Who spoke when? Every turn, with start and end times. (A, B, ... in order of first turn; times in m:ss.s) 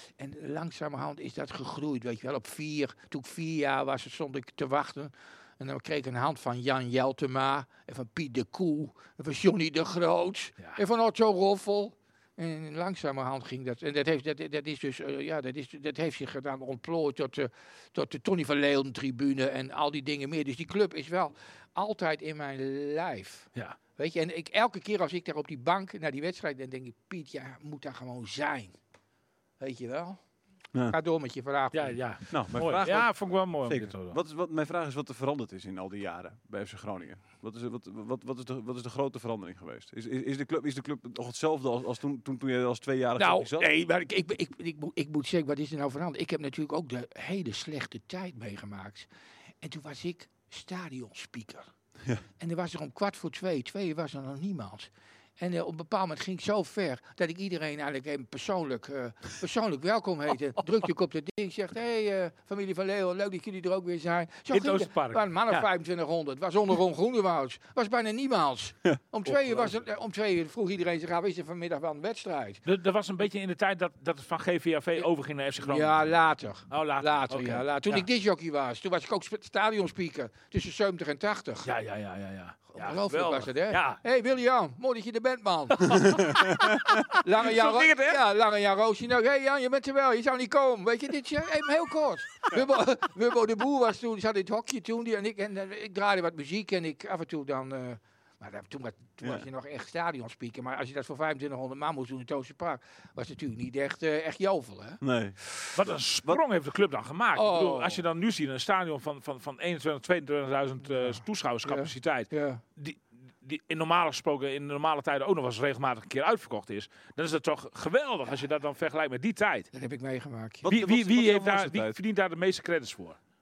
0:00.2-0:28.7 A
0:29.6-0:30.2 A
0:30.9-0:32.0 A
0:31.7-0:34.2 B
0:32.3-0:43.7 C
0:43.2-0:49.1 A
0:49.6-0:51.7 A
0:52.4-1:12.6 A
1:04.5-1:05.6 B
1:09.3-1:09.7 B
1:12.6-1:16.1 B
1:15.6-1:21.7 A
1:16.7-1:18.0 B
1:21.6-1:24.0 B
1:22.7-1:26.5 A
1:25.8-1:28.2 B
1:27.1-1:45.0 A
1:45.0-1:46.4 C
1:45.7-1:59.7 B
1:47.4-1:48.0 A
1:50.8-1:52.6 A
1:59.7-2:00.7 A
2:00.6-2:02.0 C
2:00.7-2:03.2 B